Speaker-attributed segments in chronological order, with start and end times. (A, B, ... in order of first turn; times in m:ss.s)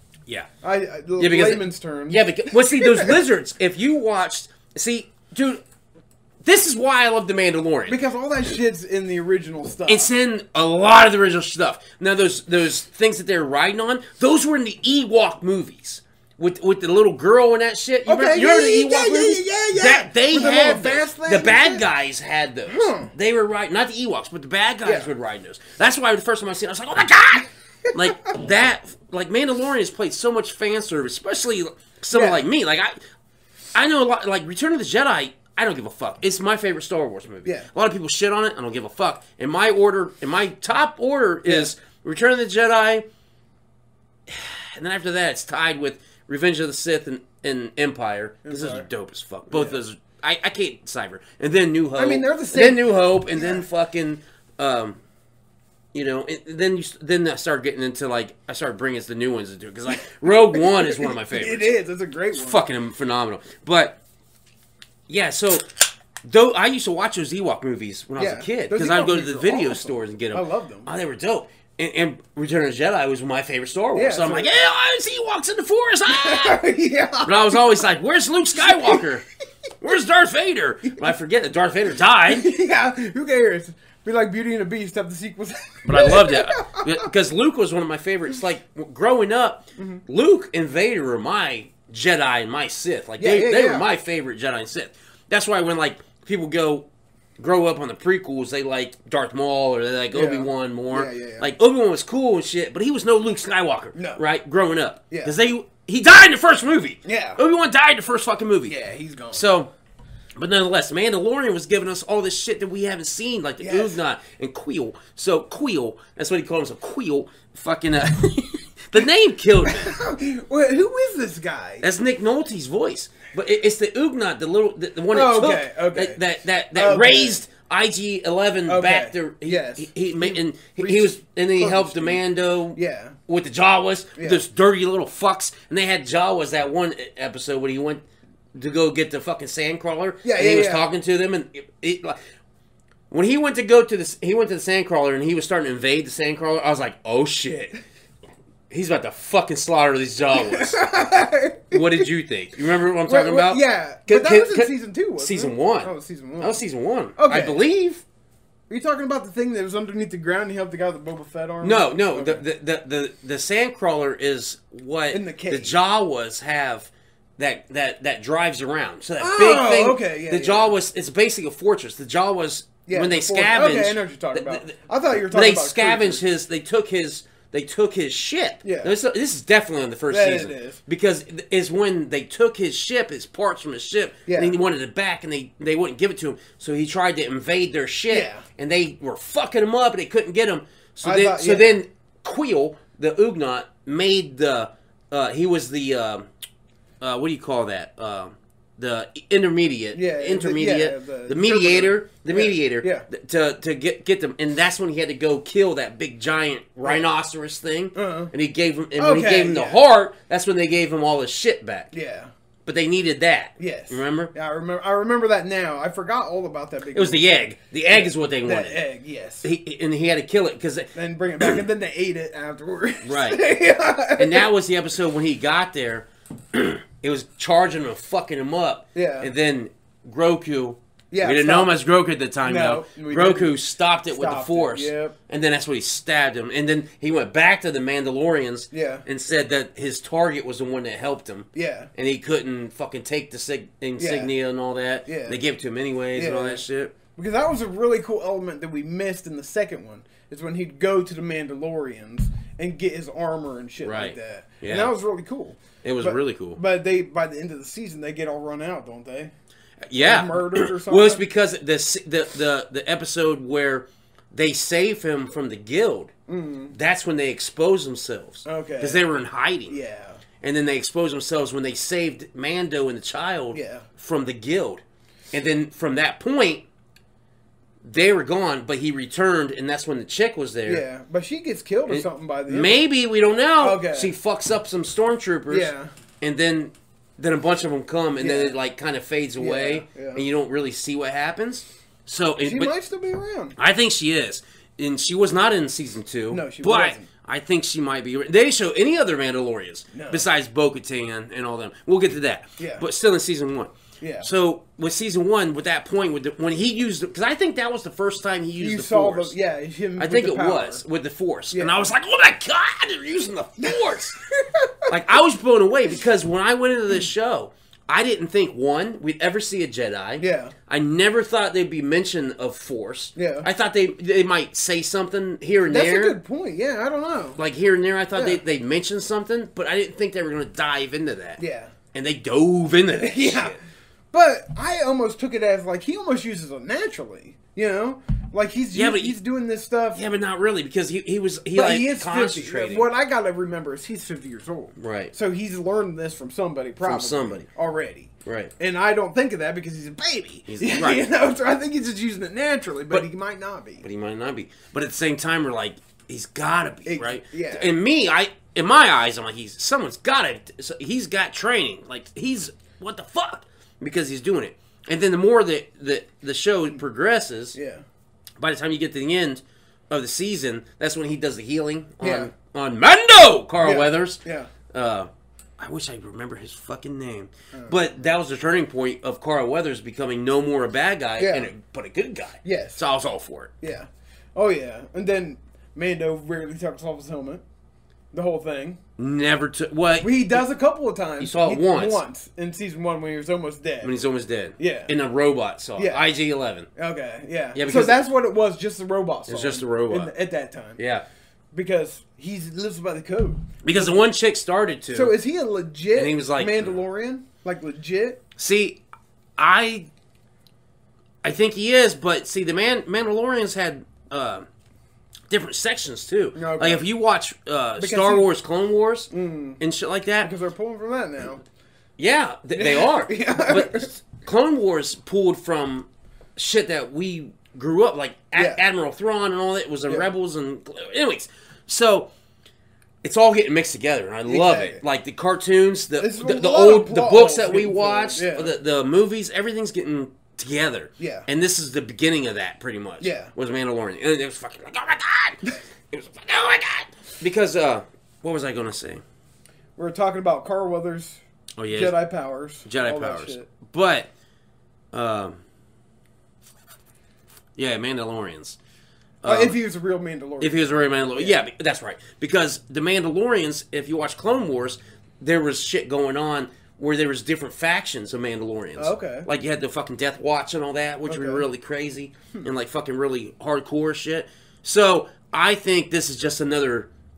0:00.6-0:03.2 A
0:01.2-0:05.6 B
0:06.4-0:08.0 B
0:07.9-0:10.1 A
0:09.9-0:32.9 B
0:18.0-0:21.8 A
0:22.7-0:23.1 A
0:24.8-0:25.1 A
0:27.9-0:28.3 A
0:32.1-0:32.4 A
0:33.7-0:43.0 B
0:44.3-0:55.0 B
0:48.4-0:48.9 A
0:49.5-0:49.8 A
0:52.0-0:53.6 A
0:55.9-1:01.8 B
1:00.3-1:02.7 A
1:02.3-1:04.0 B
1:05.1-1:05.6 B
1:06.2-1:16.6 B
1:08.2-1:10.9 A
1:13.9-1:14.5 A
1:16.1-1:17.8 A
1:17.2-1:19.2 B
1:18.6-1:19.1 A
1:19.8-1:22.5 B
1:22.3-1:27.1 A
1:25.8-1:36.9 B
1:29.8-1:30.0 A
1:33.2-1:33.9 A
1:37.4-1:48.7 B
1:40.1-1:41.5 A
1:43.9-1:44.2 A
1:47.0-1:47.4 A
1:48.7-1:49.4 A
1:49.3-1:49.7 B
1:50.4-1:59.9 B
1:53.6-1:54.0 A
1:59.6-2:01.8 A
2:01.8-2:18.0 B
2:05.1-2:06.2 A
2:06.7-2:07.4 A
2:08.7-2:12.2 A
2:12.7-2:13.2 A
2:14.2-2:14.4 A
2:18.5-2:22.2 B
2:20.2-2:20.9 A
2:23.1-2:27.8 B
2:28.7-2:30.8 B
2:30.3-2:32.1 A
2:31.7-2:38.0 B
2:33.0-2:36.6 A
2:37.2-2:37.6 A
2:38.7-2:42.4 A
2:41.6-3:16.3 B
2:45.1-2:45.8 A
2:49.2-2:50.8 A
2:52.8-2:56.2 A
2:58.6-2:58.9 A
3:00.1-3:00.8 A
3:04.3-3:04.6 A
3:08.1-3:08.4 A
3:11.0-3:11.8 A
3:17.0-3:31.9 B
3:19.9-3:23.1 A
3:27.9-3:28.3 A
3:29.0-3:29.8 A
3:31.9-3:32.3 A
3:32.6-3:34.3 B
3:33.6-3:39.4 A
3:36.9-3:38.8 B
3:39.4-3:41.6 B
3:40.9-3:44.5 A
3:43.0-3:43.4 B
3:44.2-4:06.9 B
3:48.9-3:49.3 A
3:51.1-3:51.7 A
3:52.4-3:53.6 A
3:54.1-3:55.2 A
3:58.7-3:59.0 A
4:01.5-4:01.9 A
4:04.0-4:04.3 A
4:05.0-4:05.4 A
4:06.1-4:06.6 A
4:07.1-4:19.3 A
4:13.8-4:14.9 B
4:15.8-4:16.6 B
4:19.9-4:26.1 B
4:20.0-4:21.2 A
4:26.3-4:26.8 A
4:26.7-4:29.8 B
4:28.4-4:29.1 A
4:29.7-4:30.2 A
4:30.4-4:36.6 B
4:33.5-4:33.8 A
4:37.8-4:40.8 B
4:40.6-4:42.8 A
4:41.9-4:52.7 B
4:43.6-4:44.1 A
4:45.5-4:45.9 A
4:48.2-4:48.5 A
4:49.4-4:50.2 A
4:52.4-4:53.6 A
4:53.6-5:09.4 B
4:56.3-4:57.1 A
4:59.9-5:00.2 A
5:02.6-5:02.8 A
5:04.0-5:04.3 A
5:08.6-5:10.8 A
5:10.0-5:14.2 B
5:11.5-5:11.9 A
5:14.4-5:14.9 A
5:14.9-5:26.2 B
5:20.2-5:20.5 A
5:23.2-5:23.5 A
5:25.7-5:27.4 A
5:27.4-5:31.4 B
5:28.1-5:28.4 A
5:31.4-5:31.7 A
5:31.9-5:33.6 B
5:33.0-5:33.6 A
5:34.1-5:40.0 A
5:38.7-5:39.2 B
5:39.9-5:42.9 B
5:41.5-5:53.8 A
5:44.8-5:45.1 B
5:46.8-5:47.4 B
5:48.2-5:48.5 B
5:50.5-5:51.1 B
5:53.8-6:07.6 B
5:56.8-5:57.7 A
6:07.5-6:07.8 A
6:08.4-6:23.5 B
6:12.0-6:12.3 A
6:13.6-6:14.5 A
6:17.5-6:18.1 A
6:21.2-6:21.5 A
6:22.4-6:22.8 A
6:23.6-6:27.4 A
6:28.1-6:28.8 A
6:29.0-6:30.4 B
6:30.0-6:33.9 A
6:31.2-6:32.0 B
6:33.8-6:36.7 B
6:34.6-6:34.9 A
6:35.8-6:36.1 A
6:36.7-6:40.8 A
6:37.5-6:38.0 B
6:39.3-6:40.1 B
6:40.8-6:41.0 B
6:41.5-6:44.0 A
6:43.6-6:45.2 B
6:44.9-6:48.2 A
6:45.9-6:46.8 B
6:48.4-6:48.8 B
6:49.4-6:49.9 B
6:51.2-6:54.5 B
6:55.3-7:00.3 B
6:56.3-6:56.9 A
6:57.8-6:58.3 A
6:59.1-6:59.6 A
7:00.2-7:01.4 A
7:02.0-7:12.1 B
7:02.5-7:03.9 A
7:08.3-7:08.6 A
7:13.0-7:29.0 B
7:14.2-7:14.8 A
7:16.0-7:18.5 A
7:21.0-7:21.3 A
7:23.0-7:23.3 A
7:29.8-7:33.5 A
7:31.6-7:32.0 B
7:32.6-7:34.1 B
7:34.9-7:35.4 B
7:37.6-7:38.6 B
7:39.2-7:39.6 B
7:39.2-7:41.4 A
7:40.4-7:56.9 B
7:48.8-7:49.3 A
7:51.0-7:51.4 A